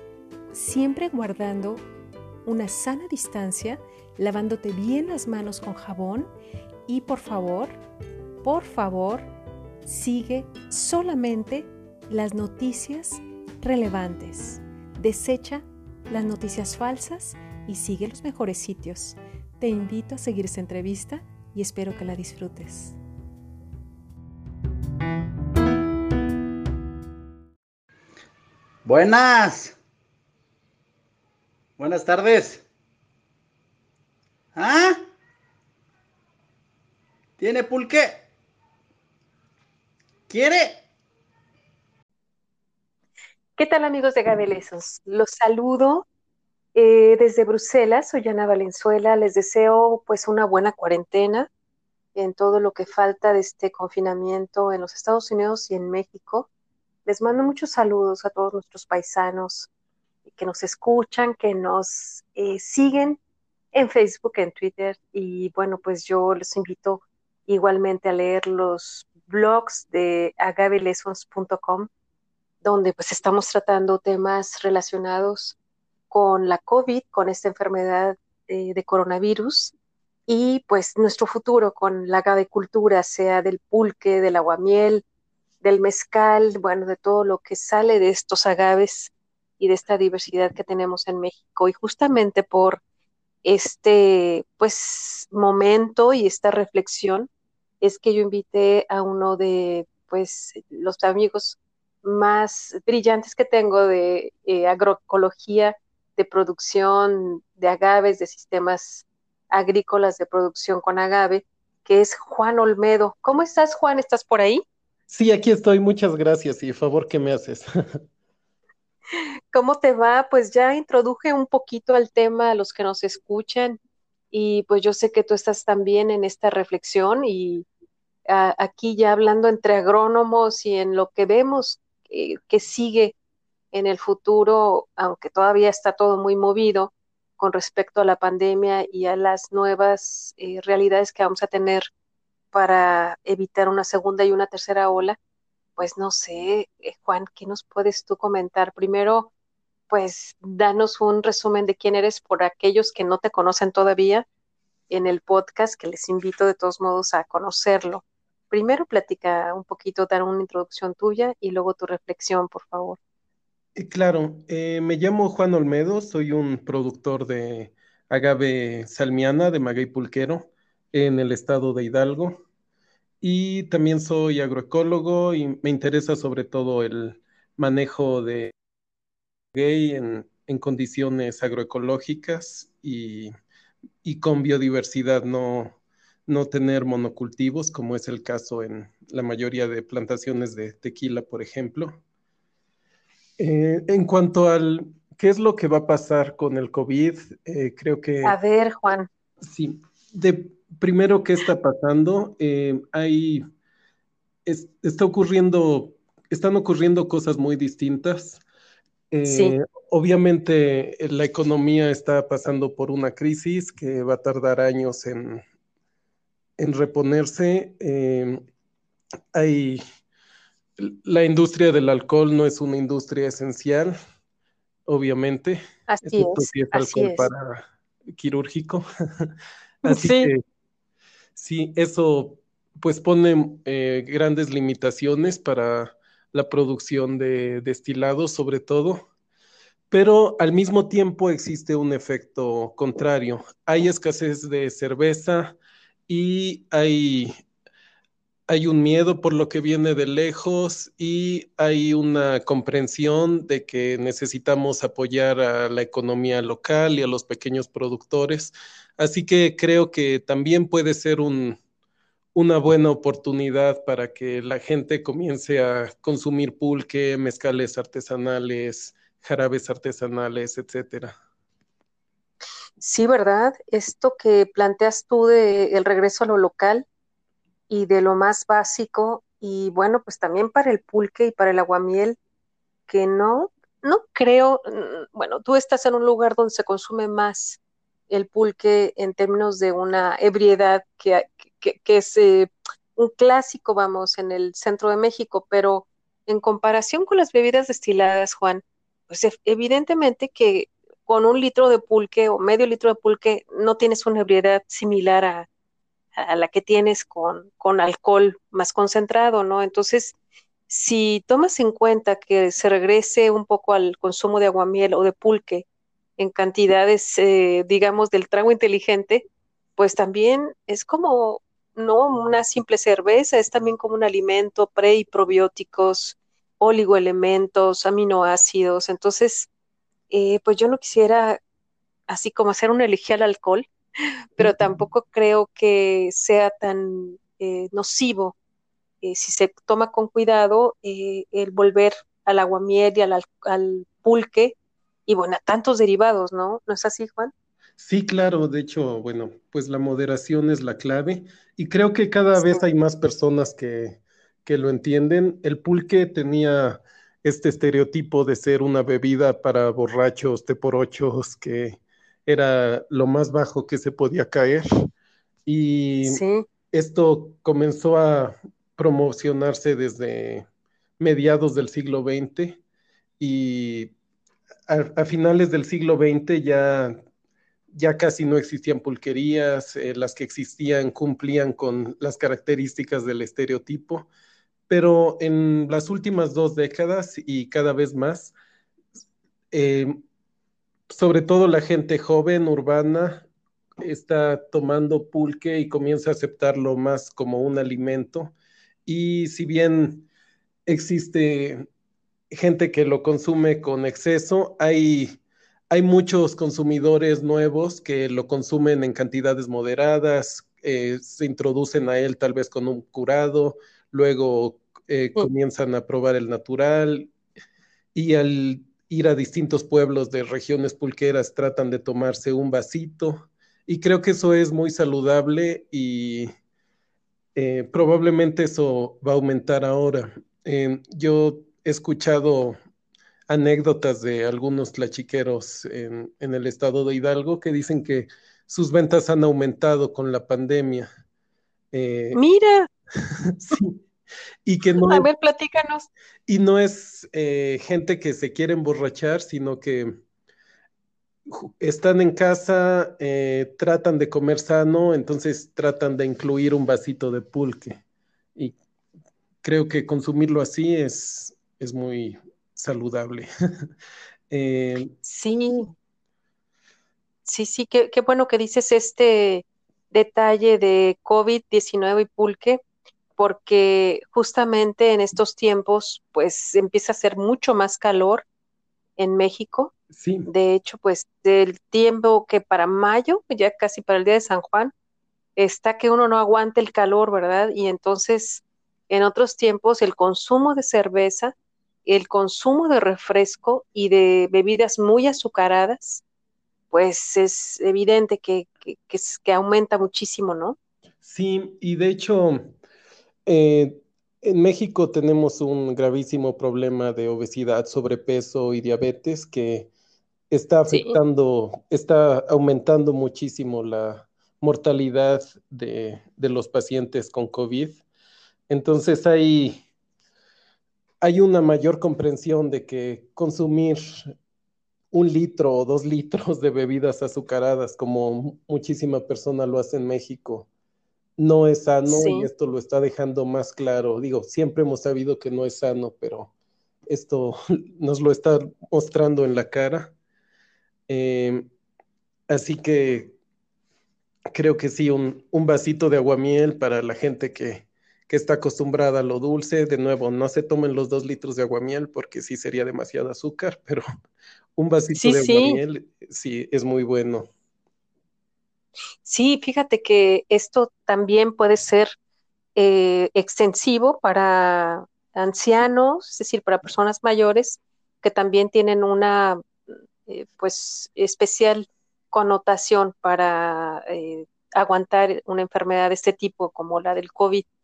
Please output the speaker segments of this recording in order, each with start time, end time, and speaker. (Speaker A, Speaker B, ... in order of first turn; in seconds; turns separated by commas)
Speaker A: 0.5-1.8, Speaker A: 2.5-6.3, Speaker A: 6.9-7.8, Speaker A: 8.4-9.2, Speaker A: 9.8-23.0, Speaker B: 28.8-29.8, Speaker B: 31.8-32.6, Speaker B: 34.5-35.0, Speaker B: 37.4-38.2, Speaker B: 40.3-40.8, Speaker A: 43.6-46.0, Speaker A: 46.7-51.5, Speaker A: 52.1-56.5, Speaker A: 57.0-59.7, Speaker A: 60.3-63.2, Speaker A: 63.7-71.9, Speaker A: 72.6-75.5, Speaker A: 76.1-79.7, Speaker A: 80.3-85.0, Speaker A: 85.6-92.8, Speaker A: 93.4-97.3, Speaker A: 97.8-114.6, Speaker C: 115.1-118.0, Speaker A: 119.5-123.8, Speaker A: 124.3-127.7, Speaker A: 128.3-133.1, Speaker A: 133.7-141.9, Speaker A: 142.5-145.2, Speaker A: 145.8-149.3, Speaker A: 149.9-154.2, Speaker A: 154.9-163.0, Speaker C: 163.8-172.4, Speaker C: 173.2-178.5, Speaker C: 179.5-183.3, Speaker C: 184.0-185.7, Speaker C: 186.3-192.0, Speaker C: 193.4-198.4, Speaker A: 198.2-199.1, Speaker C: 199.4-203.4, Speaker C: 204.4-208.4, Speaker C: 209.1-215.4, Speaker A: 209.2-209.5, Speaker C: 216.6-218.4, Speaker C: 219.3-219.8, Speaker C: 220.8-223.9, Speaker C: 224.8-229.3, Speaker A: 225.9-227.3, Speaker A: 229.8-230.3, Speaker C: 229.8-230.4, Speaker C: 231.3-239.0, Speaker C: 239.9-245.6, Speaker C: 246.1-247.3, Speaker C: 248.5-261.6, Speaker C: 262.3-271.1, Speaker A: 272.8-276.8, Speaker A: 277.7-282.2, Speaker A: 282.9-305.5, Speaker A: 306.2-310.1, Speaker A: 310.7-315.6, Speaker A: 316.2-319.2, Speaker A: 319.8-329.5, Speaker A: 330.1-331.4, Speaker A: 332.1-333.7, Speaker A: 334.4-338.4, Speaker C: 334.4-334.7, Speaker A: 339.0-347.3, Speaker C: 347.8-364.7, Speaker A: 352.3-352.6, Speaker C: 365.4-370.4, Speaker A: 366.0-366.4, Speaker C: 371.0-372.6, Speaker C: 373.2-373.9, Speaker C: 374.7-376.9, Speaker C: 377.7-384.1, Speaker C: 384.7-388.3, Speaker C: 389.5-390.0, Speaker C: 390.9-393.3, Speaker C: 393.8-398.3, Speaker C: 398.9-400.1, Speaker C: 400.6-401.7, Speaker C: 402.3-405.2, Speaker C: 405.7-417.1, Speaker C: 417.9-426.3, Speaker C: 427.3-432.6, Speaker C: 433.3-440.9, Speaker C: 441.7-442.2, Speaker A: 442.1-442.7, Speaker C: 443.2-443.8, Speaker C: 444.4-445.1, Speaker A: 444.8-445.9, Speaker C: 446.3-449.9, Speaker C: 451.2-457.8, Speaker C: 459.4-463.3, Speaker C: 464.3-464.9, Speaker A: 465.0-465.7, Speaker A: 467.2-472.6, Speaker A: 473.2-478.2, Speaker A: 479.0-479.7, Speaker C: 479.9-480.3, Speaker A: 480.3-484.7, Speaker A: 485.4-491.3, Speaker A: 491.9-496.0, Speaker A: 496.7-500.6, Speaker C: 501.0-502.5, Speaker C: 503.2-509.7, Speaker C: 510.3-517.8, Speaker A: 510.7-511.0, Speaker C: 518.5-519.6, Speaker C: 521.0-524.1, Speaker C: 524.9-530.5, Speaker C: 531.2-536.3, Speaker A: 531.9-532.3, Speaker C: 536.9-539.9, Speaker C: 540.9-541.5, Speaker C: 542.3-543.1, Speaker C: 544.3-553.8, Speaker C: 554.5-557.3, Speaker A: 554.9-555.6, Speaker A: 559.0-561.9, Speaker A: 562.5-569.5, Speaker A: 570.0-577.5